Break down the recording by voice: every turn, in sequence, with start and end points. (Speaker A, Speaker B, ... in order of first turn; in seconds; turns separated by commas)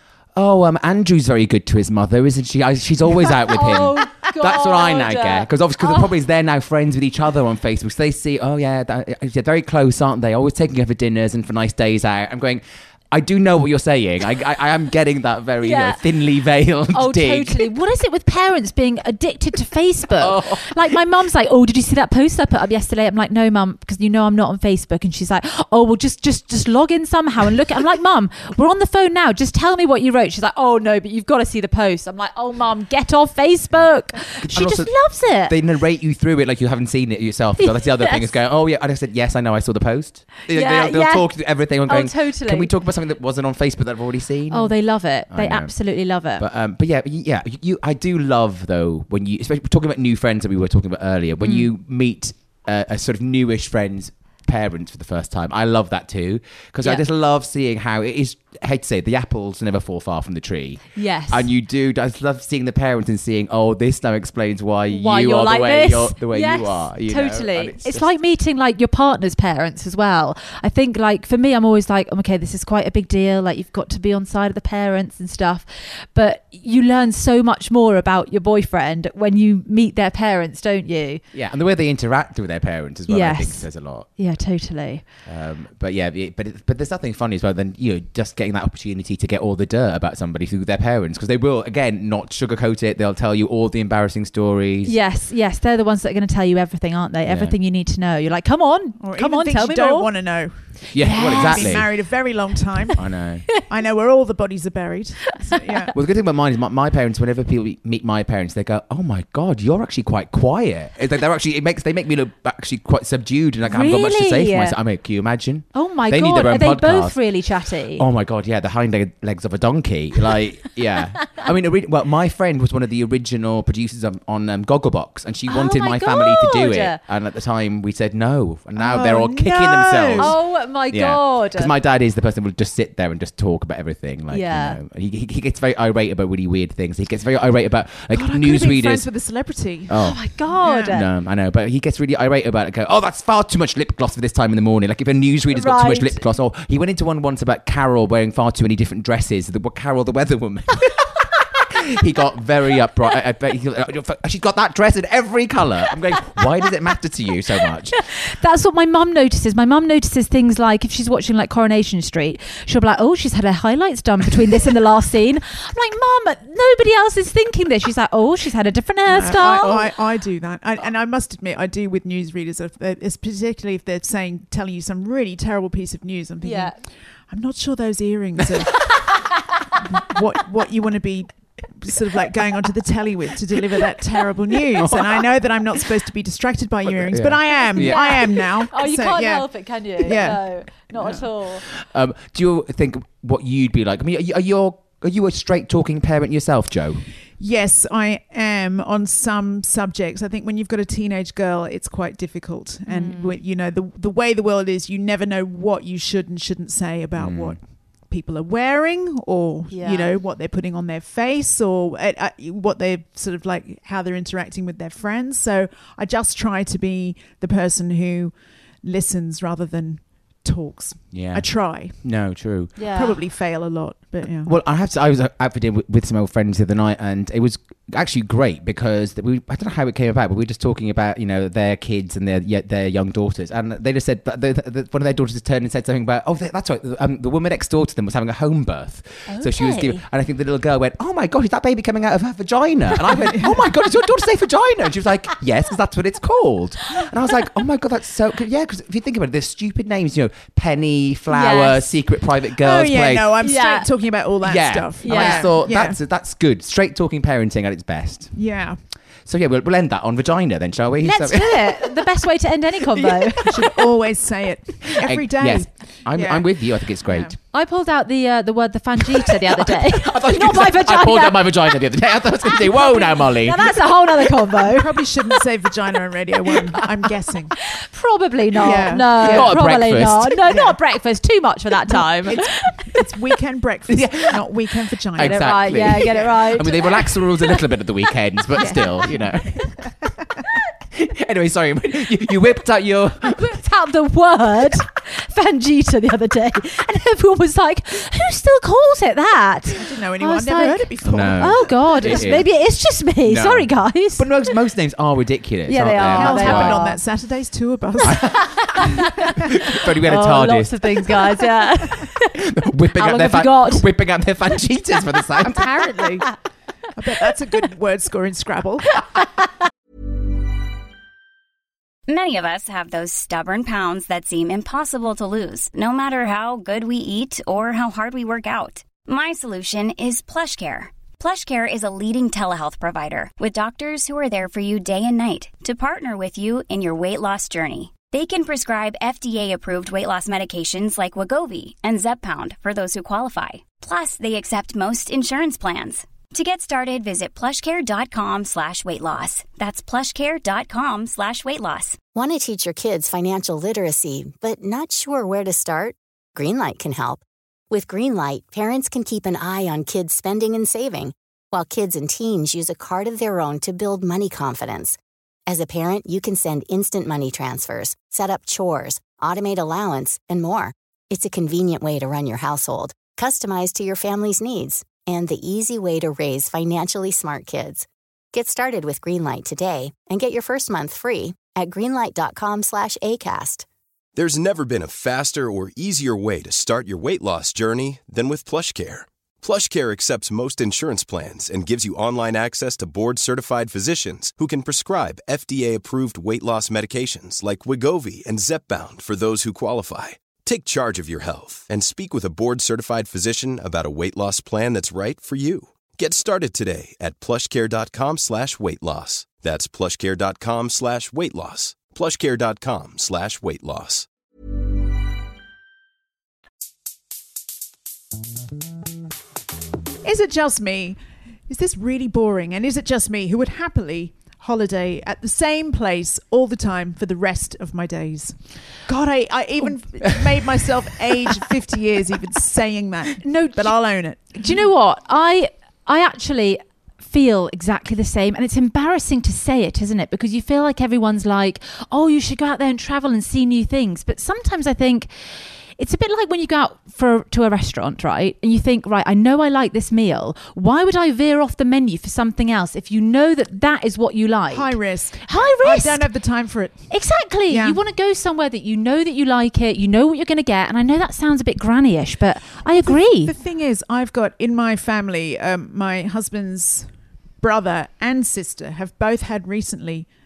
Speaker A: 0.3-17.7, Speaker B: 3.3-6.1, Speaker B: 15.6-16.0, Speaker B: 16.9-35.5, Speaker A: 20.2-21.0, Speaker A: 34.4-45.8, Speaker B: 37.6-38.3, Speaker B: 40.5-42.7, Speaker B: 44.5-46.4, Speaker A: 46.4-68.1, Speaker B: 51.4-51.7, Speaker B: 61.0-61.5, Speaker B: 64.9-81.2, Speaker A: 81.3-84.1, Speaker B: 83.1-85.0, Speaker A: 85.2-95.0, Speaker B: 94.8-100.1, Speaker A: 97.3-97.6, Speaker C: 99.0-105.9, Speaker A: 100.9-102.1, Speaker B: 101.0-101.8, Speaker A: 103.0-103.5, Speaker A: 105.9-117.2, Speaker B: 113.7-114.8, Speaker B: 115.7-118.0, Speaker A: 118.0-139.1, Speaker B: 125.5-127.0, Speaker C: 128.8-130.4, Speaker B: 130.2-131.7, Speaker B: 134.3-134.8, Speaker C: 138.1-141.0, Speaker A: 139.9-140.2, Speaker B: 140.0-141.1, Speaker A: 140.8-158.0, Speaker B: 145.5-146.2, Speaker B: 158.0-169.9, Speaker C: 169.1-179.3, Speaker B: 176.4-176.8, Speaker C: 179.8-191.2, Speaker A: 184.8-185.5, Speaker A: 186.8-188.4, Speaker B: 187.6-191.6, Speaker A: 191.7-197.1, Speaker C: 197.4-222.1, Speaker B: 202.9-203.4, Speaker A: 207.2-207.6, Speaker B: 209.7-210.1, Speaker A: 221.1-222.8, Speaker B: 222.8-223.2, Speaker C: 222.8-224.5, Speaker A: 224.4-253.4, Speaker B: 239.3-240.0, Speaker C: 243.1-243.6, Speaker B: 251.3-251.9, Speaker C: 252.6-256.0, Speaker B: 253.4-253.9, Speaker A: 254.4-258.4, Speaker B: 255.0-255.5, Speaker C: 258.4-258.8, Speaker A: 259.3-261.8, Speaker B: 261.0-263.6, Speaker C: 263.1-267.4, Speaker A: 265.0-267.4, Speaker B: 267.5-271.6, Speaker A: 269.3-274.3, Speaker B: 272.5-275.0, Speaker C: 274.6-277.6, Speaker B: 277.7-282.9, Speaker C: 278.6-279.6, Speaker A: 279.1-280.4, Speaker C: 280.5-280.8, Speaker C: 281.9-286.4, Speaker A: 283.9-284.5, Speaker A: 285.1-289.9, Speaker B: 285.2-287.1, Speaker C: 288.6-289.2, Speaker A: 290.9-293.5, Speaker B: 293.2-304.3, Speaker C: 299.8-302.4, Speaker A: 301.0-302.5, Speaker A: 303.2-306.9, Speaker B: 305.7-307.0, Speaker C: 306.1-308.8, Speaker A: 308.0-311.1, Speaker B: 308.6-309.3, Speaker B: 310.0-312.4, Speaker A: 312.4-315.8, Speaker B: 313.0-313.9, Speaker C: 315.5-316.3, Speaker C: 316.9-319.2, Speaker D: 322.1-352.0, Speaker E: 352.1-383.7, Speaker F: 384.1-414.1, Speaker C: 420.0-434.6, Speaker B: 433.2-445.1, Speaker B: 445.8-456.1, Speaker C: 454.5-456.9, Speaker B: 456.9-463.3, Speaker C: 457.5-457.8, Speaker C: 462.8-466.9, Speaker C: 467.4-470.1